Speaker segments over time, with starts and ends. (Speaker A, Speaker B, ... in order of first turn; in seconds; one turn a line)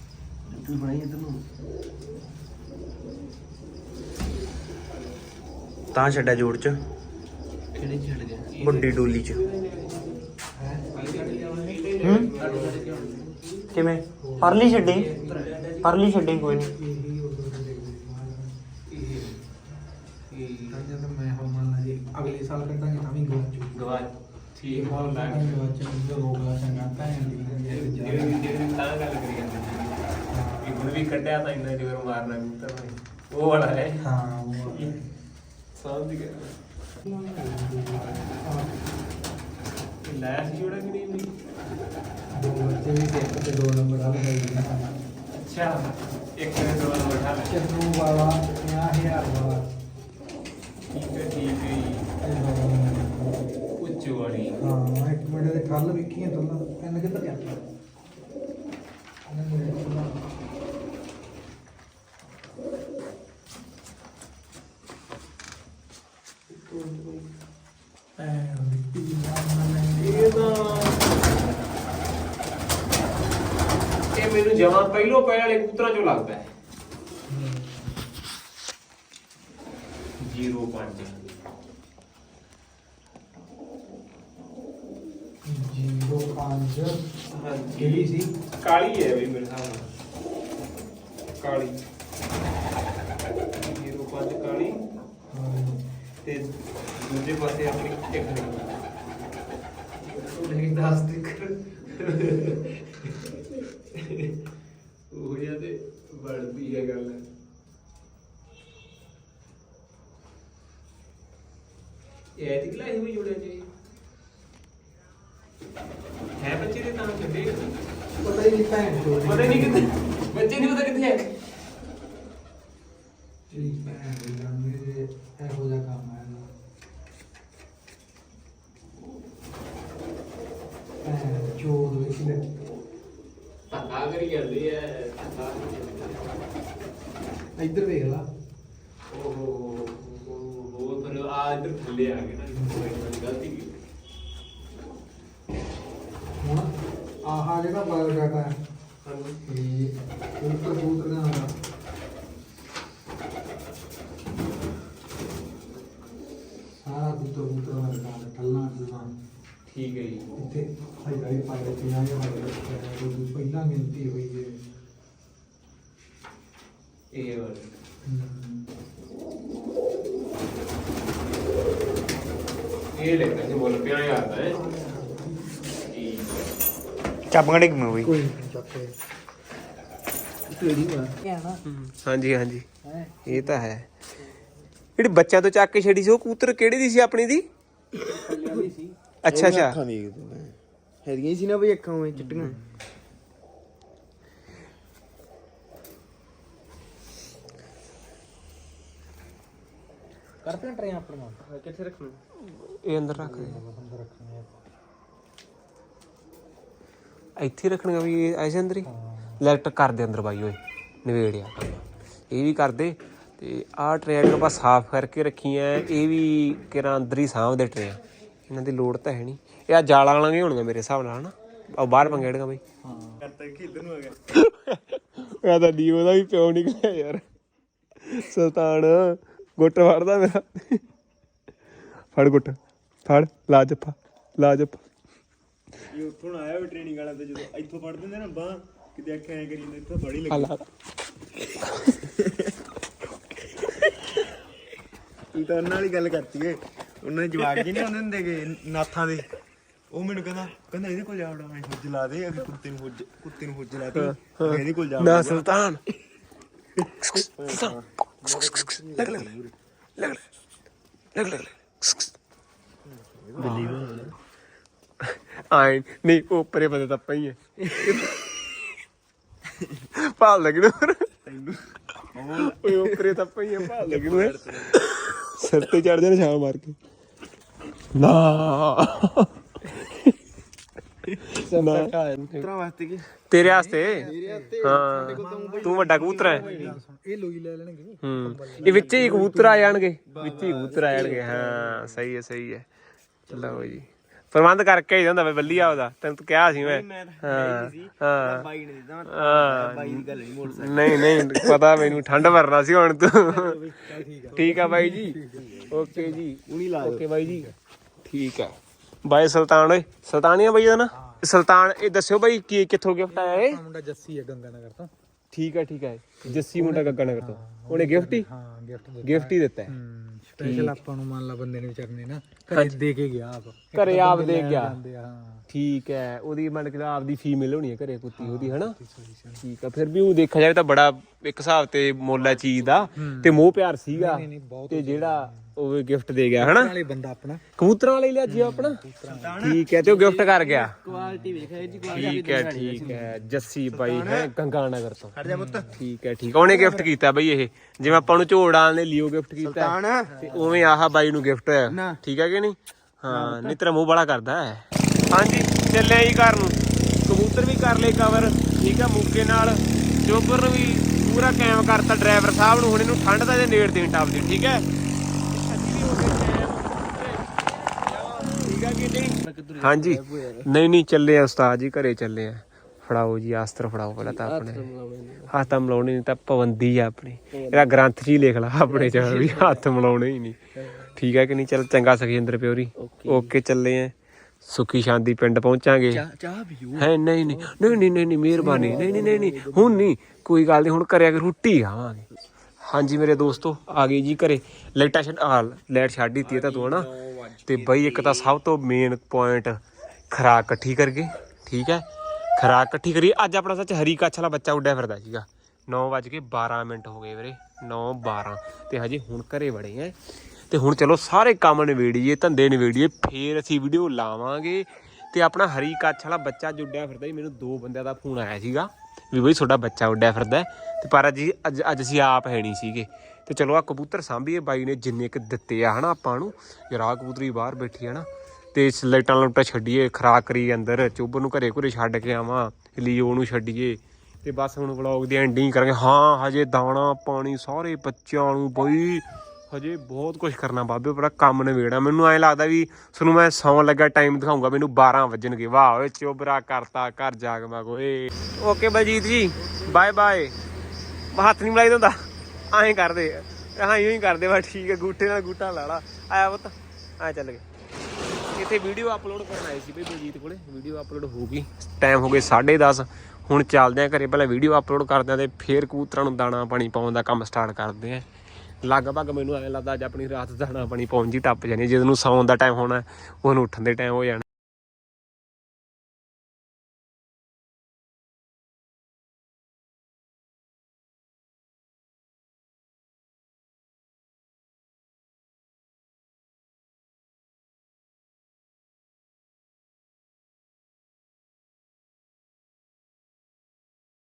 Speaker A: 0.5-1.4
Speaker B: 5.9-6.8
Speaker A: 7.8-10.3
Speaker B: 8.6-9.4
Speaker C: 10.6-11.7
Speaker A: 10.9-13.7
Speaker D: 11.1-11.7
Speaker B: 12.0-12.3
Speaker D: 12.3-13.3
Speaker B: 13.7-15.1
Speaker C: 14.2-15.4
Speaker A: 14.6-16.2
Speaker B: 15.8-16.7
Speaker C: 16.5-18.5
Speaker A: 18.9-19.4
Speaker A: 20.3-20.8
Speaker C: 20.7-23.8
Speaker A: 23.7-25.6
Speaker C: 24.7-28.5
Speaker A: 26.8-30.0
Speaker C: 30.3-31.0
Speaker A: 30.6-34.0
Speaker C: 34.0-35.1
Speaker A: 34.7-35.0
Speaker A: 35.7-36.5
Speaker C: 37.0-38.8
Speaker A: 40.0-41.3
Speaker C: 42.3-44.9
Speaker A: 45.3-47.5
Speaker C: 47.5-49.7
Speaker A: 50.9-52.1
Speaker C: 52.2-53.5
Speaker A: 53.8-54.6
Speaker C: 54.6-57.6
Speaker C: 59.3-60.2
Speaker A: 66.5-67.2
Speaker C: 68.2-71.2
Speaker A: 70.0-71.2
Speaker A: 74.1-76.5
Speaker C: 77.3-78.1
Speaker A: 80.2-81.1
Speaker C: 85.4-87.1
Speaker A: 87.3-88.1
Speaker C: 87.7-88.3
Speaker A: 88.6-89.9
Speaker A: 91.3-91.8
Speaker A: 93.5-94.8
Speaker C: 95.3-95.8
Speaker A: 96.2-98.8
Speaker A: 100.0-104.3
Speaker A: 105.1-107.2
Speaker A: 112.3-113.7
Speaker A: 116.4-117.7
Speaker C: 118.2-120.0
Speaker A: 119.2-121.2
Speaker C: 123.5-126.5
Speaker A: 123.5-123.8
Speaker C: 131.0-132.6
Speaker A: 133.7-136.4
Speaker C: 137.6-138.2
Speaker A: 139.1-143.8
Speaker C: 142.5-142.9
Speaker C: 146.4-146.7
Speaker C: 147.2-148.6
Speaker A: 149.0-149.4
Speaker C: 149.4-151.5
Speaker C: 156.8-159.1
Speaker A: 159.7-160.3
Speaker C: 160.3-164.6
Speaker A: 167.1-167.7
Speaker C: 168.0-168.7
Speaker A: 172.9-174.6
Speaker C: 174.5-175.8
Speaker A: 175.8-176.4
Speaker B: 177.3-178.1
Speaker C: 177.9-178.9
Speaker D: 180.5-181.2
Speaker C: 181.2-181.6
Speaker A: 181.6-182.7
Speaker C: 182.8-183.6
Speaker A: 183.3-183.9
Speaker A: 185.0-187.4
Speaker D: 188.1-188.9
Speaker A: 189.2-189.8
Speaker B: 189.3-192.6
Speaker C: 192.1-192.8
Speaker C: 200.4-201.4
Speaker A: 201.6-203.6
Speaker C: 203.1-204.6
Speaker A: 207.4-208.9
Speaker C: 208.8-209.4
Speaker A: 209.4-222.6
Speaker C: 222.8-223.2
Speaker B: 223.2-224.2
Speaker A: 224.3-227.2
Speaker A: 228.0-230.8
Speaker A: 232.1-234.8
Speaker B: 235.9-240.5
Speaker A: 240.3-240.6
Speaker B: 241.9-242.6
Speaker B: 245.3-249.3
Speaker B: 249.9-255.5
Speaker A: 253.9-255.8
Speaker A: 256.8-259.3
Speaker B: 257.1-259.5
Speaker A: 260.0-260.2
Speaker A: 261.1-262.1
Speaker B: 262.9-264.1
Speaker A: 263.4-264.1
Speaker A: 265.0-268.6
Speaker A: 269.9-271.1
Speaker B: 271.2-274.8
Speaker A: 272.3-276.8
Speaker A: 277.9-280.1
Speaker A: 281.1-282.4
Speaker B: 281.5-283.1
Speaker A: 283.3-284.1
Speaker C: 283.4-290.8
Speaker B: 284.0-286.8
Speaker A: 284.6-286.4
Speaker A: 288.0-292.6
Speaker B: 288.6-289.3
Speaker B: 290.1-292.0
Speaker A: 293.3-298.5
Speaker B: 293.3-293.8
Speaker B: 296.5-301.8
Speaker A: 299.1-303.6
Speaker B: 303.2-305.7
Speaker C: 303.7-306.2
Speaker A: 304.3-307.5
Speaker B: 306.5-307.1
Speaker A: 308.0-313.6
Speaker C: 310.9-311.2
Speaker C: 313.1-314.9
Speaker A: 315.3-318.2
Speaker C: 316.2-325.5
Speaker A: 319.0-319.7
Speaker A: 320.4-320.8
Speaker A: 322.5-322.8
Speaker A: 323.7-324.8
Speaker A: 325.5-328.8
Speaker C: 328.1-329.4
Speaker A: 329.4-336.7
Speaker B: 332.3-332.9
Speaker C: 332.9-333.4
Speaker C: 333.9-335.5
Speaker C: 336.4-337.4
Speaker A: 337.6-338.8
Speaker C: 338.3-339.5
Speaker B: 339.0-339.9
Speaker A: 339.4-340.8
Speaker D: 339.7-343.1
Speaker C: 340.9-341.9
Speaker A: 341.9-345.2
Speaker B: 343.7-344.3
Speaker B: 345.1-345.8
Speaker C: 345.2-345.8
Speaker A: 345.7-364.7
Speaker B: 346.5-346.9
Speaker B: 349.4-350.4
Speaker C: 350.2-350.7
Speaker B: 351.7-352.0
Speaker B: 353.1-353.6
Speaker A: 365.3-374.7
Speaker D: 369.2-370.5
Speaker D: 374.0-375.5
Speaker A: 375.3-380.4
Speaker D: 377.3-377.7
Speaker D: 378.6-379.7
Speaker D: 380.6-380.9
Speaker A: 380.9-383.9
Speaker D: 382.8-383.3
Speaker A: 384.4-386.1
Speaker D: 385.9-389.7
Speaker A: 386.8-392.1
Speaker B: 388.4-389.8
Speaker A: 392.6-396.9
Speaker B: 396.2-398.3
Speaker A: 397.4-409.9
Speaker A: 410.5-450.4
Speaker A: 451.1-457.4
Speaker A: 458.3-468.1
Speaker A: 468.6-474.2